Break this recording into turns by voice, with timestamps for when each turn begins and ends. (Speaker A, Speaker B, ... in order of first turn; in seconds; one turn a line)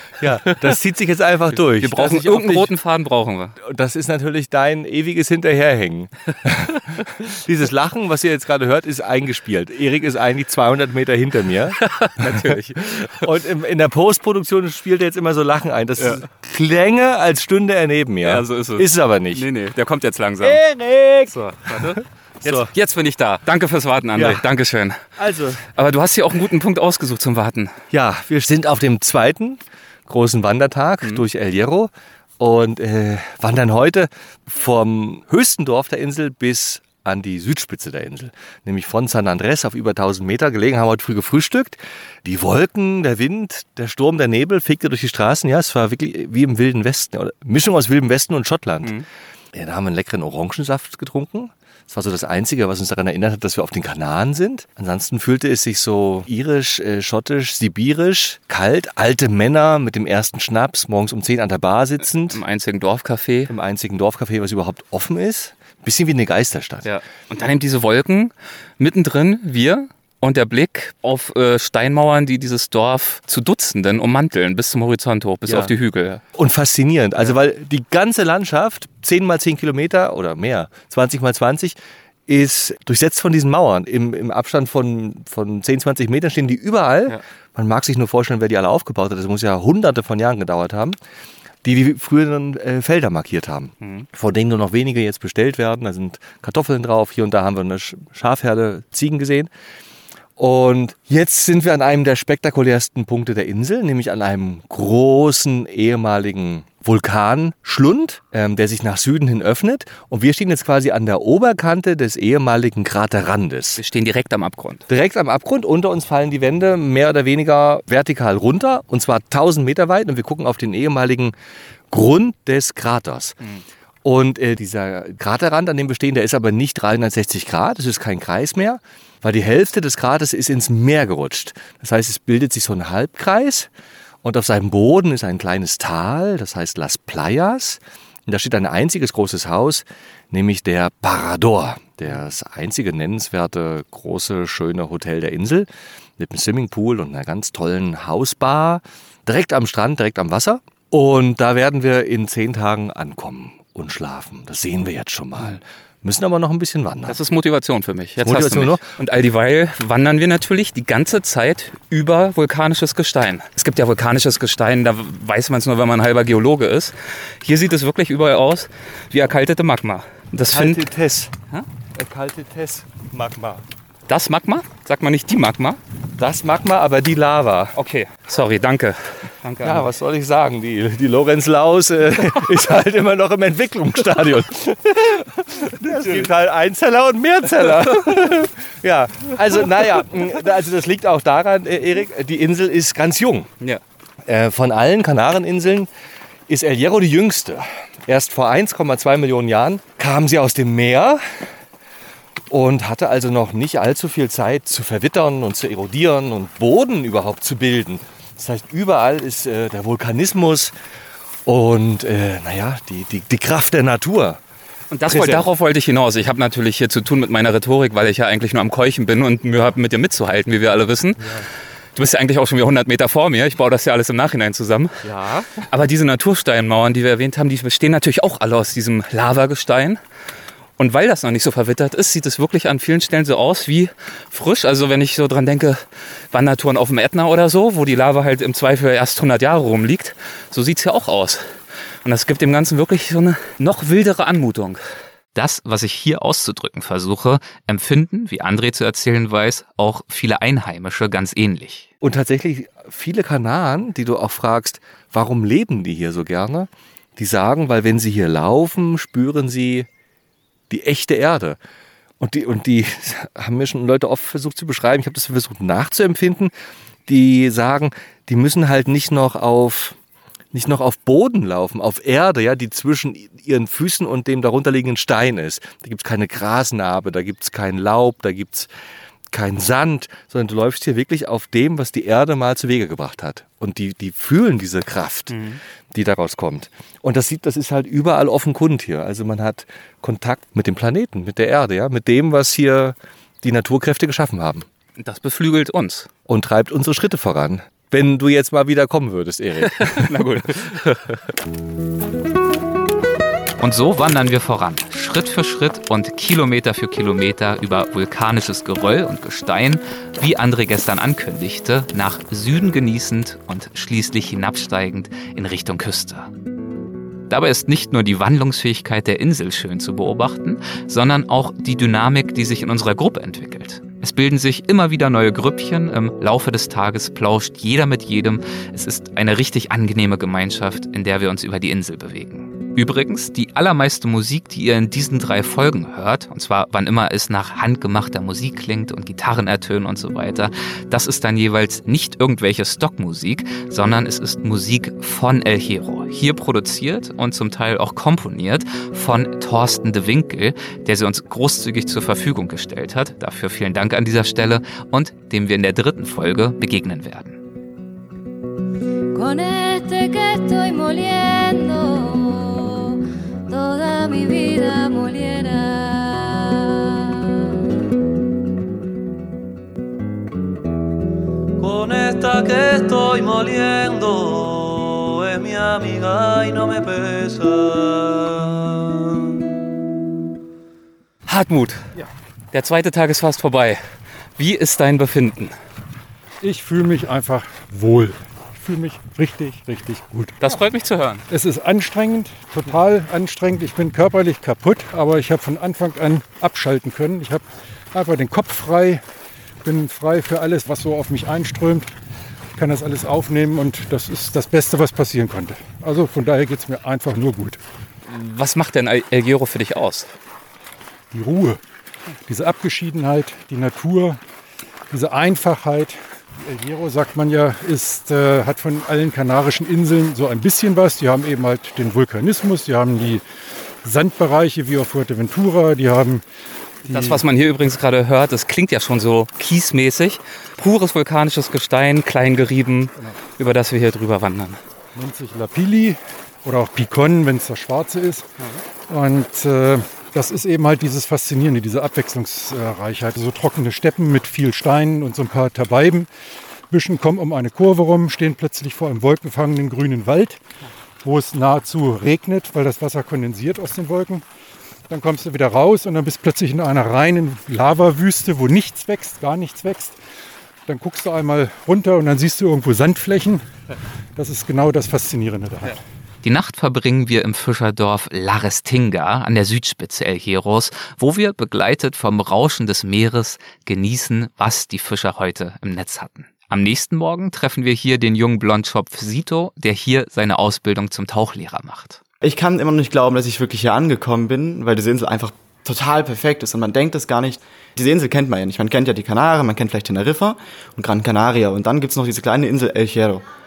Speaker A: 0.2-2.8
Speaker B: 1.5-3.6
Speaker A: 3.6-12.5
Speaker B: 11.8-13.2
Speaker A: 13.2-19.4
Speaker B: 18.2-20.6
Speaker A: 20.4-22.7
Speaker B: 21.3-25.0
Speaker A: 24.1-24.4
Speaker A: 25.2-25.7
Speaker B: 25.8-27.7
Speaker A: 27.9-49.0
Speaker A: 49.5-62.4
Speaker B: 62.3-63.5
Speaker A: 63.5-66.9
Speaker B: 66.8-76.2
Speaker A: 75.5-75.7
Speaker A: 76.3-91.0
Speaker A: 91.6-99.5
Speaker B: 93.8-94.1
Speaker A: 100.4-113.8
Speaker B: 113.8-114.8
Speaker A: 114.9-121.3
Speaker A: 121.9-123.4
Speaker A: 124.0-133.7
Speaker A: 134.2-157.2
Speaker B: 157.1-170.8
Speaker A: 158.2-158.9
Speaker A: 170.5-171.3
Speaker A: 172.0-173.6
Speaker B: 174.1-175.8
Speaker A: 176.2-177.8
Speaker B: 177.8-179.9
Speaker A: 179.6-193.5
Speaker B: 185.9-186.3
Speaker B: 187.5-188.3
Speaker A: 194.3-195.9
Speaker A: 196.5-201.4
Speaker A: 202.5-210.7
Speaker A: 211.5-214.4
Speaker B: 214.9-221.2
Speaker A: 215.1-215.5
Speaker B: 222.0-224.9
Speaker A: 225.0-225.6
Speaker B: 225.7-230.0
Speaker B: 230.8-241.4
Speaker B: 242.1-244.8
Speaker B: 245.3-251.9
Speaker A: 252.0-259.9
Speaker A: 260.7-261.6
Speaker A: 262.2-266.5
Speaker A: 267.1-270.0
Speaker A: 270.5-278.7
Speaker A: 279.3-285.4
Speaker B: 285.3-285.6
Speaker A: 285.9-294.7
Speaker B: 295.0-296.1
Speaker A: 296.3-300.2
Speaker B: 299.8-301.0
Speaker B: 303.6-316.3
Speaker B: 317.3-357.4
Speaker C: 359.1-363.0
Speaker C: 363.5-367.4
Speaker D: 371.6-379.4
Speaker B: 381.3-381.8
Speaker B: 382.5-383.8
Speaker B: 384.4-385.5
Speaker E: 386.4-390.4
Speaker B: 390.4-391.2
Speaker E: 391.3-399.0
Speaker E: 399.6-401.9
Speaker E: 402.6-407.6
Speaker B: 408.1-410.1
Speaker E: 411.1-411.6
Speaker E: 412.3-414.2
Speaker E: 414.9-423.2
Speaker E: 423.8-426.2
Speaker E: 426.9-427.2
Speaker B: 426.9-434.6
Speaker E: 434.9-438.3
Speaker E: 438.9-446.1
Speaker E: 446.7-450.4
Speaker E: 451.0-454.2
Speaker E: 454.9-460.0
Speaker E: 460.7-463.4
Speaker E: 464.2-465.8
Speaker B: 466.2-482.0
Speaker F: 482.2-493.2